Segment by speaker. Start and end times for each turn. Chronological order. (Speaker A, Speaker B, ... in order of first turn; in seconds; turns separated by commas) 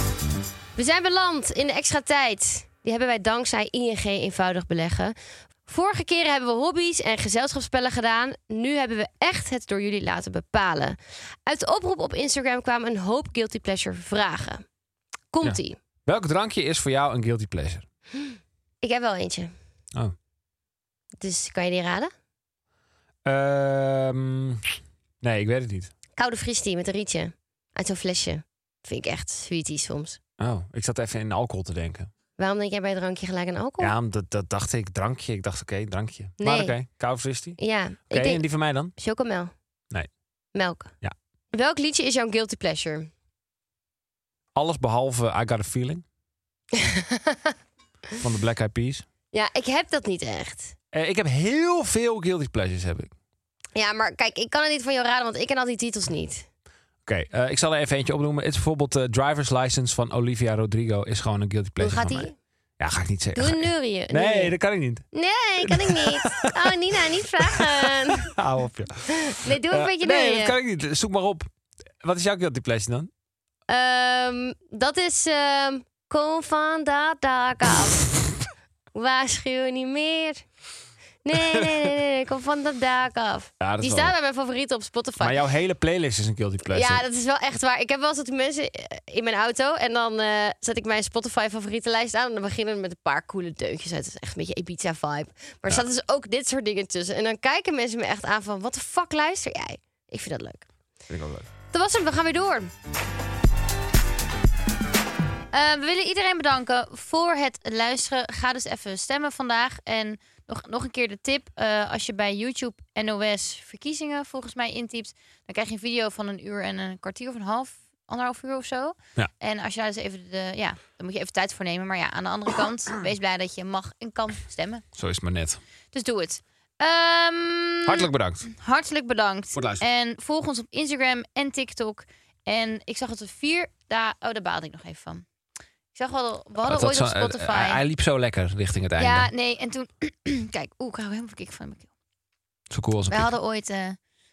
Speaker A: 0.8-14.6, Speaker A: 15.3-15.8, Speaker B: 15.4-17.8, Speaker A: 18.8-19.5, Speaker A: 21.2-22.1, Speaker B: 23.2-25.9, Speaker A: 26.2-30.2, Speaker B: 30.4-32.1, Speaker A: 32.4-33.9, Speaker B: 33.8-37.6, Speaker A: 36.4-36.7, Speaker A: 37.6-38.4, Speaker B: 38.1-38.9, Speaker A: 39.0-39.5, Speaker A: 40.5-40.9, Speaker A: 41.5-43.1, Speaker B: 44.5-46.0, Speaker A: 46.7-47.5, Speaker B: 48.2-49.0, Speaker A: 49.3-50.7, Speaker B: 50.9-53.1, Speaker A: 53.7-56.4, Speaker B: 57.0-65.0, Speaker A: 61.8-62.3, Speaker A: 63.4-64.5, Speaker A: 65.1-68.3, Speaker B: 65.6-71.5, Speaker A: 69.1-70.5, Speaker B: 72.0-73.1, Speaker A: 73.7-78.1, Speaker A: 78.9-80.4, Speaker A: 81.2-85.4, Speaker B: 81.3-81.9, Speaker B: 83.6-84.1, Speaker B: 85.2-87.0, Speaker A: 86.7-100.6, Speaker B: 101.1-101.5, Speaker A: 101.7-102.7, Speaker C: 105.5-124.8, Speaker B: 124.9-125.6, Speaker C: 125.9-135.2, Speaker B: 127.8-128.4, Speaker B: 129.5-129.8, Speaker C: 135.9-137.8, Speaker B: 136.7-139.3, Speaker C: 139.0-141.9, Speaker B: 142.7-143.3, Speaker C: 143.1-144.0